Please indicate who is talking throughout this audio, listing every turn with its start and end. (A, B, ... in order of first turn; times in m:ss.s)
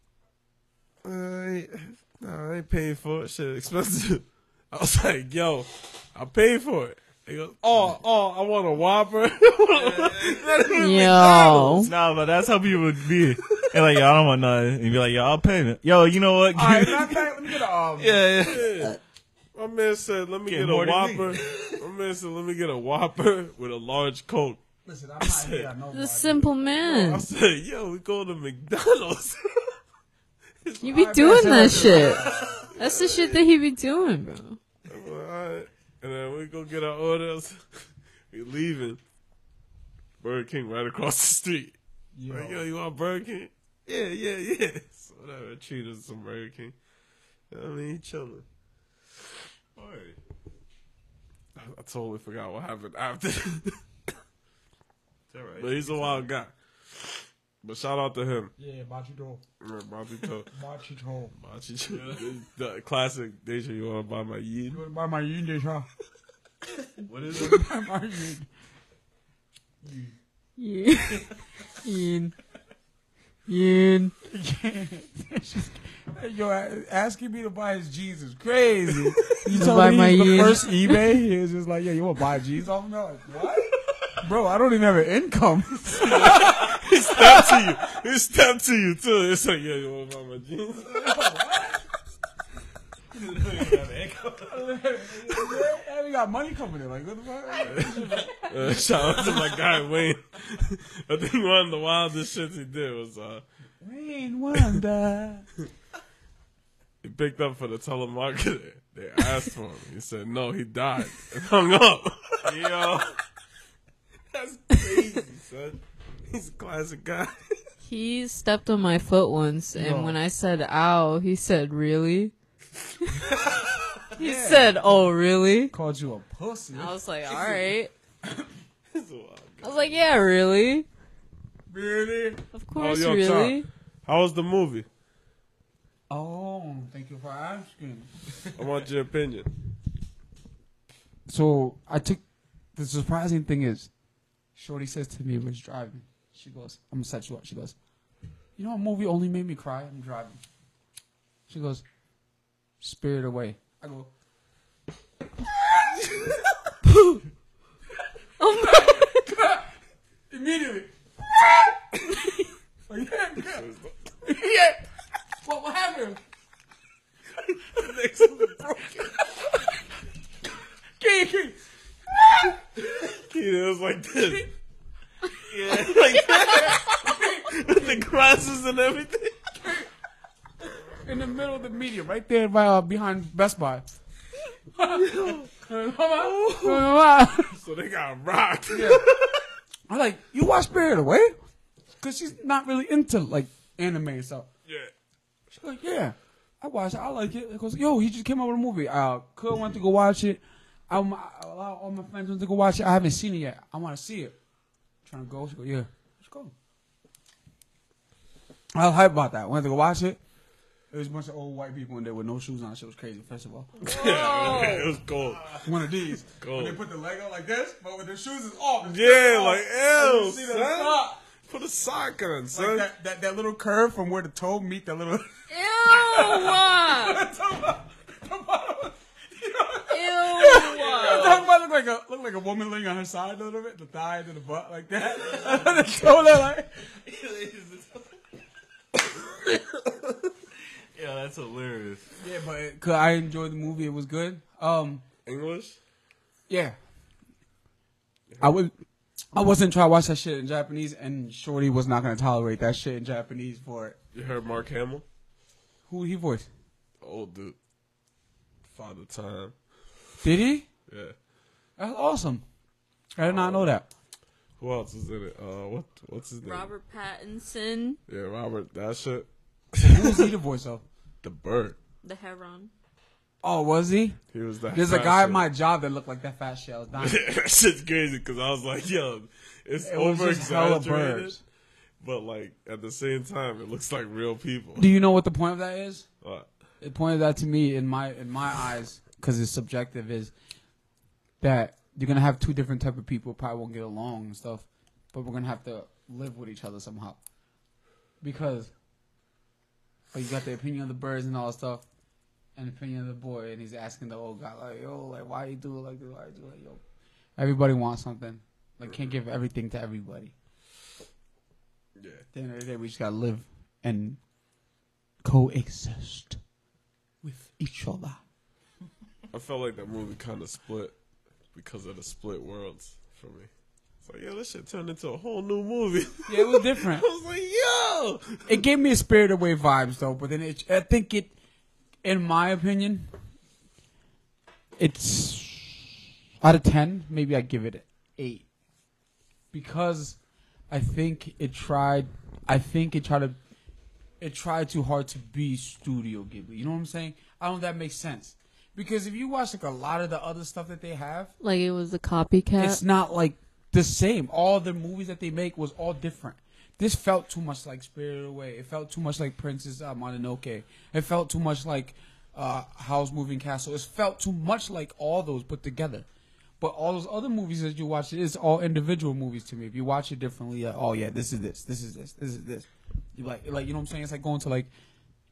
0:01.0-0:11.9 A
0:09.8-0:10.6 B
0:10.8-0:11.9 C
0:11.8-0:17.4 B
0:13.2-0:13.7 A
0:16.5-0:18.3 D
0:18.0-0:19.0 B
0:18.4-0:19.0 A
0:19.6-0:24.6 A
0:20.5-0:21.8 B
0:24.8-0:26.5 D
0:25.2-0:25.7 A
0:25.9-0:27.3 C
0:26.8-0:29.8 A
0:30.6-0:33.4 A
0:30.8-0:34.6 C
0:30.8-0:32.7 D
0:34.9-0:37.8 A
0:38.3-0:39.0 A
0:40.2-0:41.8 A
0:42.1-0:42.6 D
0:42.3-0:46.8 A
0:47.5-0:48.4 A
0:49.8-0:50.2 B
0:51.6-0:53.8 A
0:55.3-0:56.2 B
0:55.6-0:58.5 A
0:58.6-0:59.4 D
0:59.6-1:00.5 A
1:00.5-1:01.4 D
1:01.4-1:04.8 A
1:01.9-1:02.2 B
1:04.7-1:05.9 D
1:07.0-1:07.7 B
1:07.2-1:08.5 D
1:09.8-1:10.1 D
1:10.6-1:12.4 C
1:13.5-1:14.1 C
1:14.3-1:27.7 D
1:19.4-1:21.1 C
1:26.0-1:31.3 A
1:30.8-1:31.8 D
1:33.1-1:34.6 B
1:34.4-1:38.4 D
1:37.7-1:43.4 A
1:38.2-1:38.5 B
1:39.2-1:39.4 B
1:43.8-1:45.5 D
1:47.0-1:53.0 A
1:52.4-1:53.1 B
1:54.3-1:57.6 A
1:57.8-2:02.3 C
1:59.7-2:00.2 D
2:03.1-2:03.4 C
2:04.2-2:05.7 C
2:04.2-2:04.8 D
2:05.7-2:07.6 D
2:06.7-2:07.9 C
2:08.9-2:10.0 A
2:09.6-2:10.9 C
2:11.7-2:12.4 D
2:12.5-2:13.7 C
2:12.8-2:14.9 A
2:16.1-2:18.1 D
2:18.5-2:19.5 A
2:21.3-2:22.2 D
2:22.8-2:23.9 D
2:24.6-2:27.8 D
2:28.6-2:30.4 D
2:31.5-2:31.8 D
2:32.8-2:34.1 D
2:36.8-2:37.2 C
2:38.4-2:39.3 C
2:38.6-2:39.7 D
2:40.3-2:41.7 D
2:42.9-2:43.7 D
2:43.5-2:43.9 A
2:44.2-2:44.8 D
2:45.4-2:46.2 D
2:47.7-2:49.0 A
2:49.0-2:49.4 D
2:51.0-2:51.6 D
2:52.8-2:54.5 A
2:55.5-2:56.8 B
2:55.7-2:59.4 A
2:57.0-2:58.1 D
3:01.0-3:03.9 D
3:04.8-3:07.6 D
3:05.1-3:05.5 A
3:06.2-3:06.8 A
3:07.5-3:09.4 A
3:08.7-3:09.1 D
3:09.9-3:11.4 D
3:12.0-3:14.5 D
3:14.7-3:14.9 A
3:15.6-3:24.4 D
3:25.0-3:26.5 D
3:28.7-3:30.2 D
3:30.9-3:34.7 D
3:33.8-3:35.7 A
3:33.8-3:34.9 C
3:35.6-3:41.2 D
3:36.4-3:36.8 A
3:38.8-3:42.9 A
3:42.5-3:56.7 D
3:45.5-3:47.2 C
3:49.9-3:51.5 C
3:50.7-3:51.4 A
3:55.4-3:55.7 B
3:57.0-3:58.2 B
4:00.9-4:02.1 B
4:02.2-4:05.0 D
4:05.3-4:05.8 A
4:06.5-4:06.8 D
4:08.4-4:08.8 D
4:09.3-4:14.0 D
4:14.1-4:15.0 A
4:15.9-4:16.5 D
4:17.0-4:17.6 A
4:18.7-4:19.6 A
4:20.2-4:20.7 D
4:20.9-4:21.2 A
4:21.8-4:22.4 D
4:23.2-4:23.9 D
4:23.2-4:23.7 A
4:24.6-4:26.7 A
4:26.4-4:28.0 C
4:28.1-4:30.3 A
4:29.8-4:30.8 D
4:31.2-4:31.8 A
4:32.0-4:32.7 C
4:33.4-4:34.2 D
4:34.3-4:35.5 A
4:34.7-4:37.2 D
4:37.0-4:41.4 A
4:39.8-4:41.4 D
4:42.0-4:44.9 A
4:44.8-4:46.1 D
4:46.2-4:46.5 A
4:46.8-4:50.3 D
4:51.4-4:57.2 D
4:58.2-4:58.7 D
5:00.1-5:01.8 D
5:02.6-5:06.8 D
5:07.4-5:10.3 D
5:12.0-5:12.2 A
5:12.3-5:14.2 D
5:15.2-5:16.4 D
5:17.2-5:18.2 D
5:19.3-5:21.0 A
5:21.5-5:23.5 A
5:24.0-5:28.6 A
5:26.3-5:27.1 D
5:28.5-5:31.3 D
5:32.0-5:33.1 D
5:34.8-5:38.5 D
5:39.5-5:40.2 D
5:40.7-5:43.4 D
5:44.2-5:51.3 D
5:51.4-5:52.8 C
5:52.6-6:06.1 D
6:06.6-6:14.7 D